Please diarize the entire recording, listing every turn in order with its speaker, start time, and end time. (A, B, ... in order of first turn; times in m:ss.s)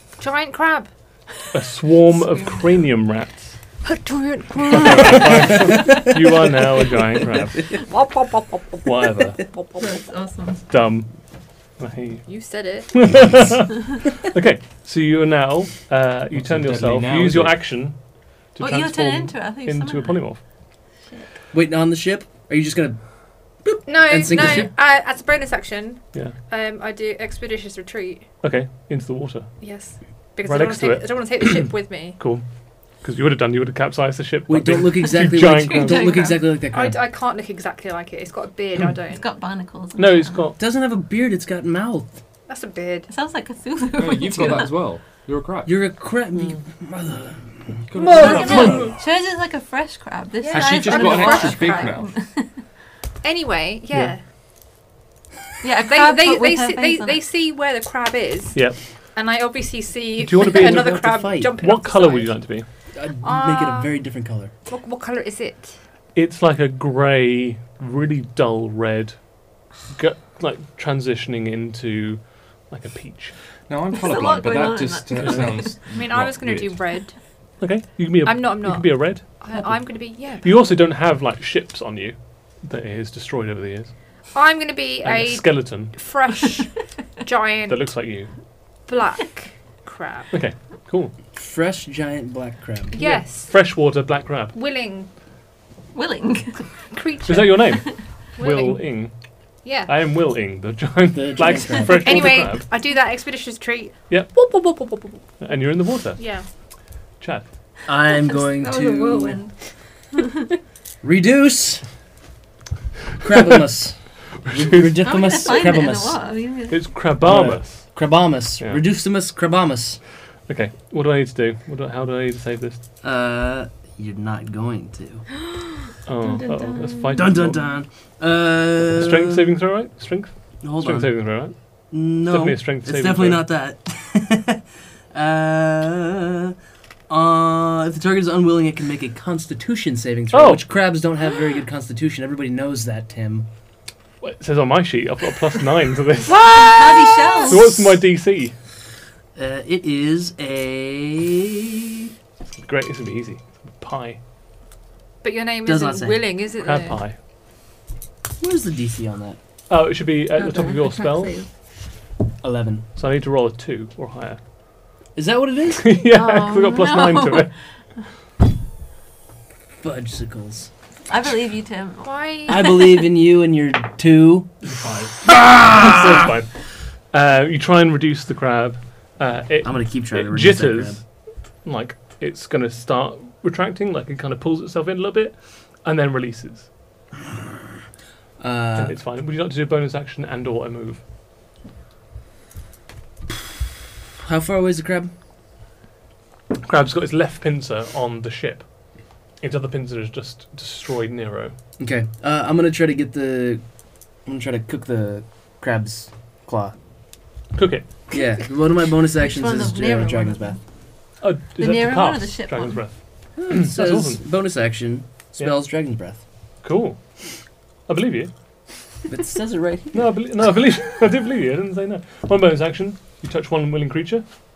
0:00.2-0:00.9 A
0:01.5-0:03.6 B
0:02.1-0:02.6 C
0:03.8-0:05.8 A
0:04.7-0:07.6 B
0:05.7-0:06.0 D
0:07.6-0:08.9 A
0:08.8-0:09.4 B
0:09.5-0:09.9 A
0:09.8-0:10.7 C
0:10.7-0:11.1 B
0:11.8-0:12.3 B
0:12.3-0:13.4 A
0:12.9-0:20.4 B
0:16.4-0:17.5 E
0:18.6-0:20.3 C
0:21.5-0:23.0 D
0:23.6-0:24.7 D
0:23.9-0:28.3 A
0:28.4-0:29.5 B
0:29.6-0:32.2 A
0:30.4-0:31.7 B
0:32.2-0:32.4 B
0:33.0-0:36.3 B
0:34.5-0:37.0 D
0:35.5-0:36.5 C
0:36.7-0:39.3 A
0:39.1-0:40.5 C
0:40.0-0:40.6 B
0:40.6-0:42.2 D
0:42.5-0:43.1 A
0:43.1-0:44.8 C
0:43.9-0:45.8 E
0:44.3-0:44.8 D
0:45.7-0:48.9 D
0:47.9-0:48.9 E
0:48.0-0:49.0 A
0:48.2-0:52.5 C
0:50.4-0:52.0 A
0:50.5-0:52.1 E
0:53.2-0:54.2 A
0:55.6-0:57.2 C
0:55.9-1:02.4 A
1:00.2-1:01.0 B
1:00.4-1:01.6 D
1:01.6-1:02.7 B
1:03.0-1:04.5 D
1:03.2-1:04.0 A
1:04.7-1:05.8 A
1:06.2-1:09.3 B
1:09.9-1:13.4 B
1:13.7-1:16.8 E
1:13.9-1:15.8 C
1:15.2-1:15.5 B
1:15.9-1:17.2 A
1:17.6-1:19.7 B
1:18.2-1:20.6 A
1:20.4-1:23.9 B
1:24.3-1:27.9 A
1:25.0-1:25.9 B
1:27.7-1:28.3 B
1:28.9-1:30.3 A
1:30.3-1:31.1 B
1:31.4-1:33.0 D
1:32.9-1:33.5 A
1:33.0-1:34.5 B
1:34.5-1:35.1 A
1:35.9-1:36.7 C
1:36.9-1:38.9 A
1:37.3-1:39.1 B
1:39.6-1:39.9 A
1:39.9-1:42.7 B
1:41.1-1:42.4 D
1:41.9-1:45.2 A
1:45.4-1:46.2 B
1:46.2-1:46.5 A
1:47.9-1:49.4 D
1:48.2-1:49.6 C
1:50.1-1:50.5 C
1:51.0-1:51.8 D
1:53.2-1:54.0 D
1:54.4-1:55.2 B
1:54.5-1:56.2 D
1:55.0-1:56.9 C
1:56.7-1:57.9 B
1:57.2-2:00.0 D
2:00.5-2:02.8 B
2:03.0-2:05.3 D
2:06.1-2:07.7 B
2:06.2-2:07.3 C
2:07.1-2:09.4 D
2:09.0-2:13.4 B
2:10.6-2:11.2 D
2:11.9-2:14.6 D
2:15.1-2:16.5 D
2:17.1-2:23.5 D
2:20.3-2:20.6 B
2:24.2-2:26.5 B
2:26.3-2:27.5 A
2:26.5-2:27.7 C
2:27.4-2:28.5 B
2:29.4-2:31.6 D
2:32.6-2:34.2 B
2:35.2-2:37.0 A
2:35.7-2:36.2 D
2:36.6-2:37.2 B
2:38.4-2:39.4 D
2:39.7-2:41.4 B
2:40.4-2:41.5 C
2:42.4-2:42.9 D
2:43.0-2:44.4 B
2:45.2-2:45.9 D
2:45.8-2:47.5 B
2:46.0-2:47.5 C
2:49.8-2:50.7 D
2:51.1-2:53.0 C
2:52.0-2:52.9 A
2:52.5-2:54.5 D
2:54.6-3:01.0 B
2:55.6-2:56.0 D
2:59.6-3:01.0 D
3:01.6-3:06.7 B
3:08.4-3:09.0 D
3:08.8-3:11.0 B
3:14.2-3:15.1 D
3:16.6-3:18.7 B
3:19.4-3:21.6 B
3:21.8-3:23.6 D
3:24.3-3:26.8 D
3:27.5-3:27.9 B
3:28.1-3:30.6 D
3:29.1-3:30.6 C
3:31.2-3:34.2 B
3:31.6-3:32.8 C
3:33.4-3:36.2 D
3:36.6-3:37.0 B
3:37.9-3:38.3 B
3:39.1-3:40.1 D
3:39.9-3:44.2 B